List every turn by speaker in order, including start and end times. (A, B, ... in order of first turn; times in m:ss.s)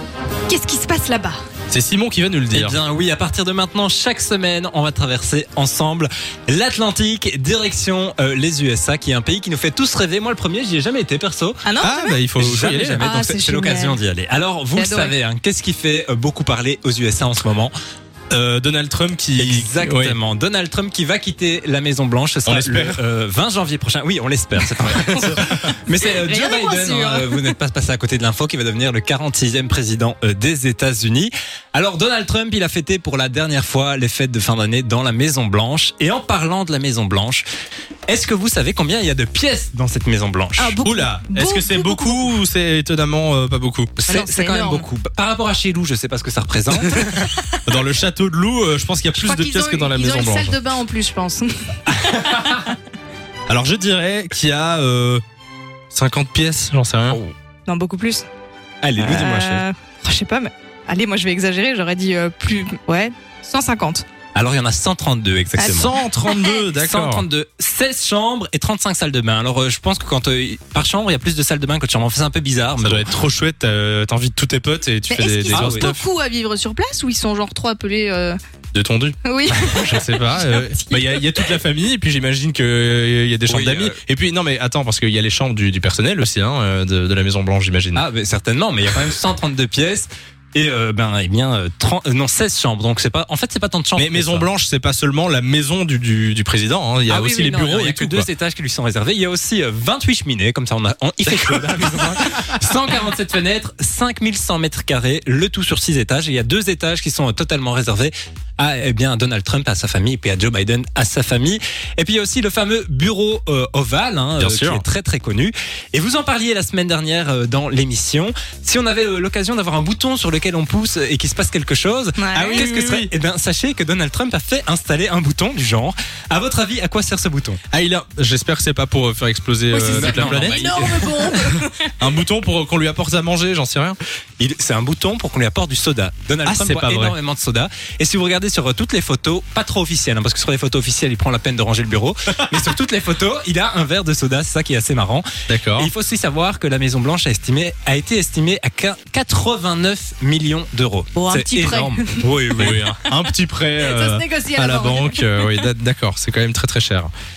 0:00.5-0:01.4 A
0:01.7-0:02.8 B
0:02.5-0:11.6 C
0:11.6-0:12.2 A
0:11.8-0:13.1 B
0:12.4-0:17.7 C
0:13.0-0:14.0 A
0:14.8-0:15.1 A
0:18.3-0:20.2 B
0:19.4-0:37.4 C
0:22.4-0:23.0 B
0:24.8-0:25.7 B
0:26.2-0:27.5 A
0:38.1-0:40.8 C
0:40.6-0:42.3 A
0:40.8-0:43.9 B
0:44.0-0:47.3 C
0:44.1-0:44.8 A
0:47.6-0:50.6 B
0:49.1-0:52.8 A
0:51.9-0:52.6 C
0:53.5-0:55.2 B
0:55.9-0:57.2 B
0:57.7-0:58.3 A
0:58.8-0:59.6 C
0:59.0-1:04.0 A
1:04.3-1:06.0 C
1:05.6-1:07.2 B
1:06.7-1:13.1 C
1:12.8-1:16.0 B
1:15.1-1:18.4 A
1:15.5-1:15.9 C
1:18.7-1:19.2 B
1:19.2-1:21.6 A
1:19.6-1:20.0 C
1:19.8-1:28.0 B
1:23.4-1:24.0 C
1:27.9-1:34.5 C
1:34.0-1:38.3 B
1:37.1-2:07.6 C
1:54.4-1:54.8 B
2:02.2-2:02.7 A
2:02.4-2:03.1 B
2:07.7-2:10.7 B
2:09.7-2:11.9 A
2:09.9-2:11.4 C
2:11.3-2:14.0 B
2:14.4-2:33.0 C
2:16.4-2:17.2 B
2:25.5-2:25.9 B
2:31.2-2:35.7 A
2:32.6-2:37.1 B